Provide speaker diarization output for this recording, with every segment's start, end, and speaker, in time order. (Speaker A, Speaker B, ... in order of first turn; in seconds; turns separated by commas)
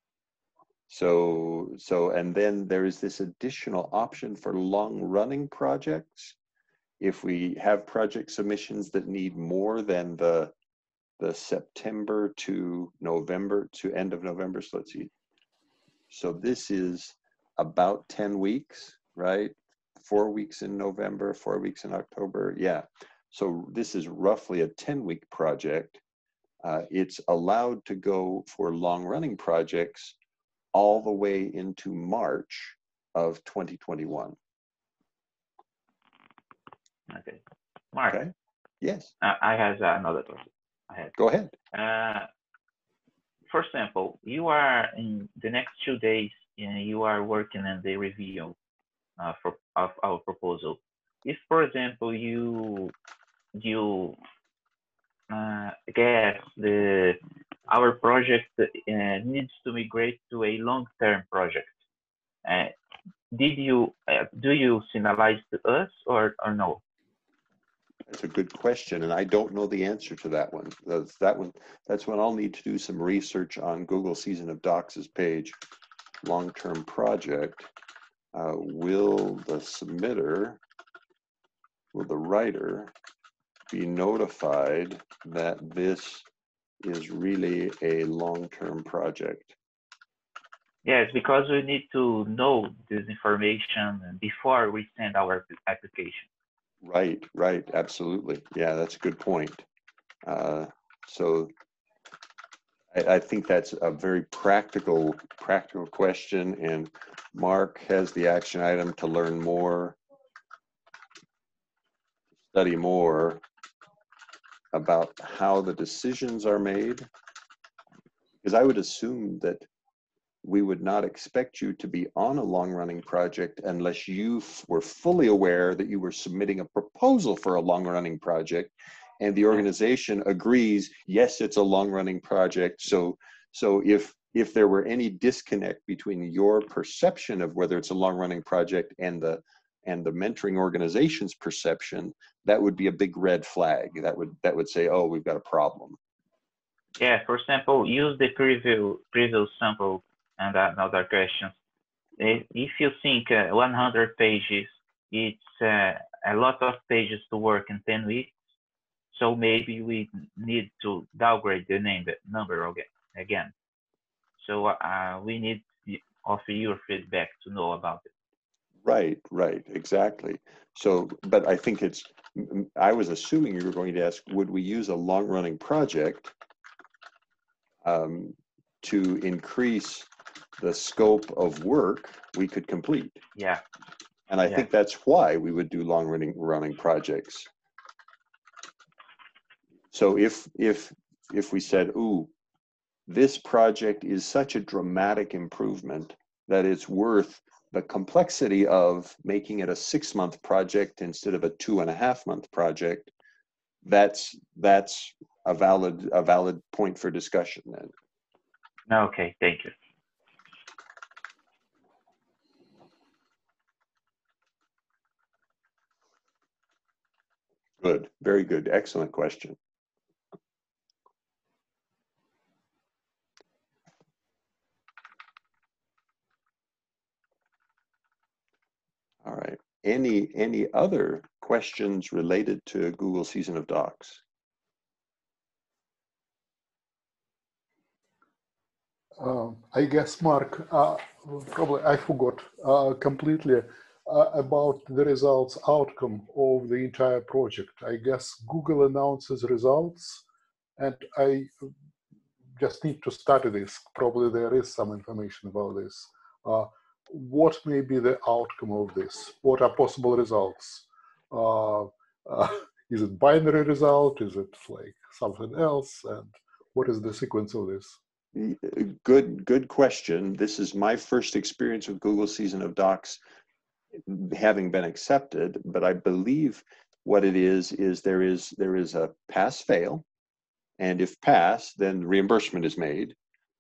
Speaker A: 0.9-6.4, Speaker A: 7.0-10.5, Speaker A: 11.2-15.1, Speaker A: 16.1-26.0, Speaker A: 26.6-30.2, Speaker A: 30.7-34.4, Speaker B: 37.1-37.4, Speaker B: 37.9-38.2, Speaker A: 38.1-39.1, Speaker B: 39.2-41.1, Speaker A: 41.2-41.5, Speaker B: 41.7-42.3, Speaker B: 43.5-48.5, Speaker B: 49.2-52.9, Speaker B: 53.6-54.2, Speaker B: 55.3-61.7, Speaker B: 62.5-62.7, Speaker B: 63.3-66.8, Speaker A: 68.1-75.6, Speaker A: 76.2-77.7, Speaker A: 78.3-80.6, Speaker A: 81.9-82.9, Speaker A: 83.7-86.3, Speaker A: 86.8-89.6, Speaker B: 90.8-96.3, Speaker A: 96.8-99.7, Speaker A: 100.2-101.5, Speaker A: 102.9-110.0, Speaker A: 112.5-113.4, Speaker A: 114.7-117.1, Speaker A: 118.4-119.7, Speaker A: 120.4-146.0, Speaker B: 147.0-151.5, Speaker B: 152.2-158.3, Speaker B: 159.1-163.5, Speaker B: 164.4-168.1, Speaker A: 168.8-176.3, Speaker A: 177.8-183.2, Speaker B: 183.3-183.6, Speaker A: 184.3-187.5, Speaker A: 189.9-192.3, Speaker A: 193.1-203.1, Speaker A: 203.8-207.9, Speaker B: 208.9-209.7, Speaker A: 217.8-219.6, Speaker A: 229.2-234.2, Speaker C: 239.2-250.2, Speaker C: 250.8-251.7, Speaker C: 252.6-268.0, Speaker A: 268.4-273.2, Speaker A: 274.1-280.0, Speaker A: 280.8-283.1